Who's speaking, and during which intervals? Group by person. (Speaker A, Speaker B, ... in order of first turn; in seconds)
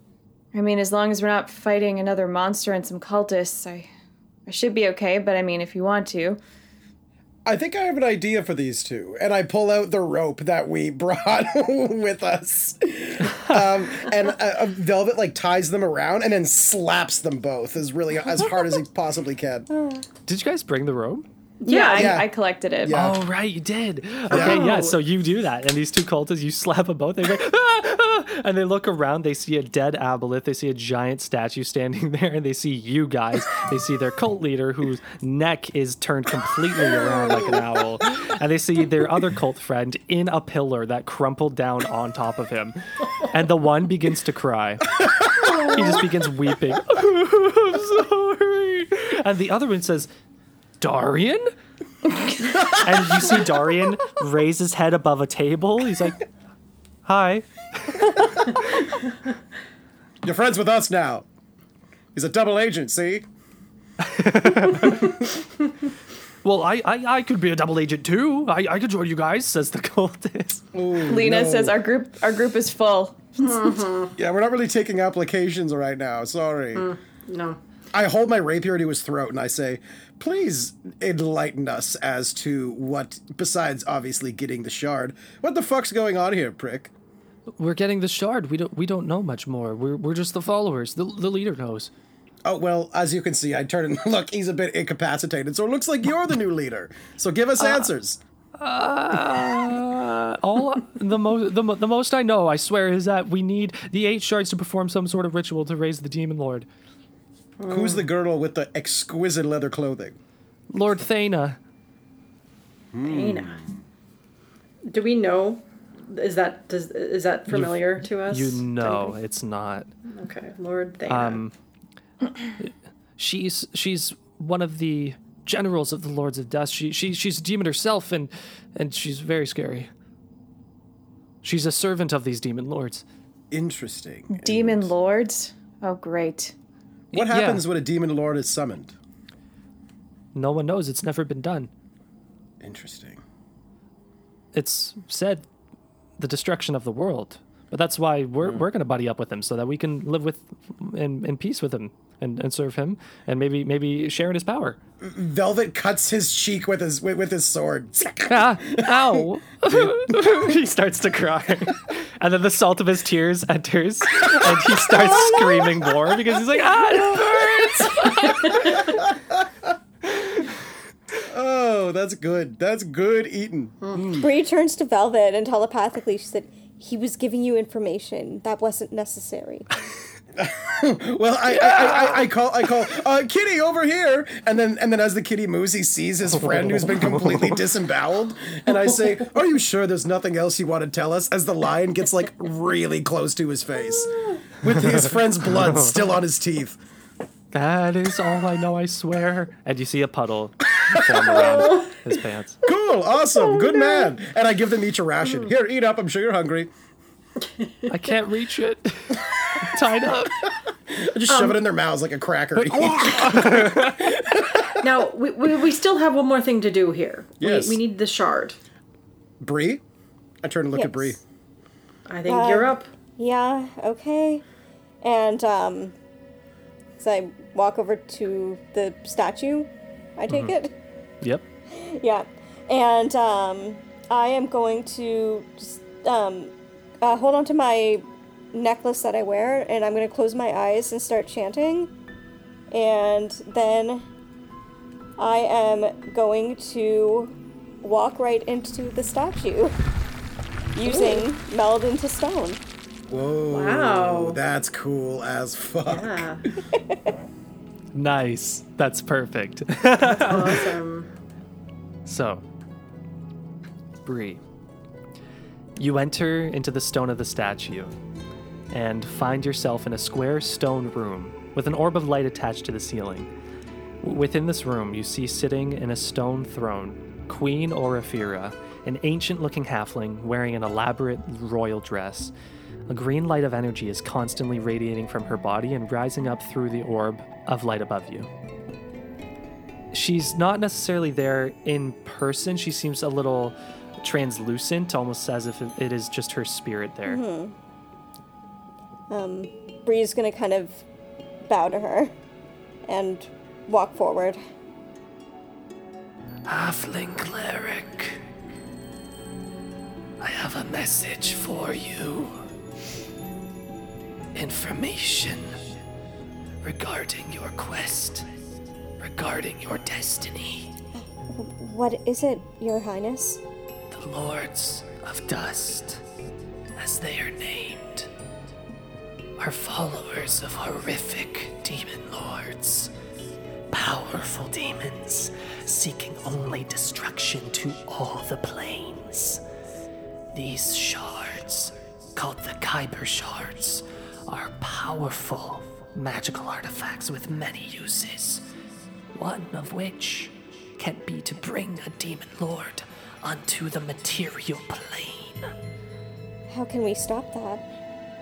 Speaker A: 0.5-3.9, 4.5-6.4, 21.6-23.0, 71.1-73.8, 134.3-136.5
Speaker B: 7.5-19.7, 21.9-22.3, 22.8-23.2, 24.3-24.6, 45.1-45.6, 60.2-61.2, 62.1-63.2, 70.7-71.8, 74.2-76.9, 77.9-86.9, 92.5-98.2, 107.7-110.2, 112.9-113.8, 133.5-134.9, 137.1-139.0, 142.6-143.2, 155.0-160.2, 164.2-164.6, 168.9-169.7, 171.2-174.3, 180.4-196.8, 202.7-206.7, 210.9-214.7, 217.4-217.8, 219.4-219.8, 220.4-221.2, 253.1-256.3
Speaker C: 19.7-20.1, 174.2-179.7, 220.8-221.2, 222.2-224.4, 225.0-225.9, 227.0-230.7, 231.8-241.9, 242.7-244.1, 245.2-249.8, 250.8-252.6, 256.8-257.0, 297.1-297.6, 299.1-300.8, 301.4-302.1, 302.9-304.4, 321.0-323.4, 356.5-357.6
Speaker D: 20.3-21.3, 22.9-45.0, 45.6-50.1, 50.8-51.5, 52.8-56.2, 57.0-58.9, 64.0-65.1, 66.4-70.7, 87.6-91.9, 97.6-97.9, 98.6-106.7, 110.7-111.6, 117.5-119.9, 121.1-121.5, 122.6-129.9, 131.4-133.1, 137.1-137.7, 140.3-141.7, 144.5-145.5, 146.2-154.8, 158.3-168.9, 181.5-182.2, 186.3-187.6, 194.8-196.0, 197.5-202.6, 207.9-210.5, 212.6-214.2, 230.3-230.5, 257.9-260.6, 262.1-262.4, 264.1-264.4, 265.8-268.0, 268.7-273.3, 274.0-282.3, 282.9-288.3, 289.9-297.2, 306.5-308.2, 310.2-312.4, 314.4-315.6, 316.6-318.3, 319.0-320.7, 323.9-326.0, 326.8-328.1, 329.4-332.9, 333.7-339.4, 340.3-348.4, 349.1-355.5
Speaker E: 21.6-22.2, 24.3-25.0, 73.4-74.1, 76.8-77.6, 107.6-108.1, 113.0-113.6, 114.9-119.2, 120.1-121.4, 194.0-194.4, 201.3-201.9, 211.3-211.6, 214.8-218.6, 222.1-222.9, 250.9-251.2, 253.5-254.4, 255.9-256.4, 260.0-261.1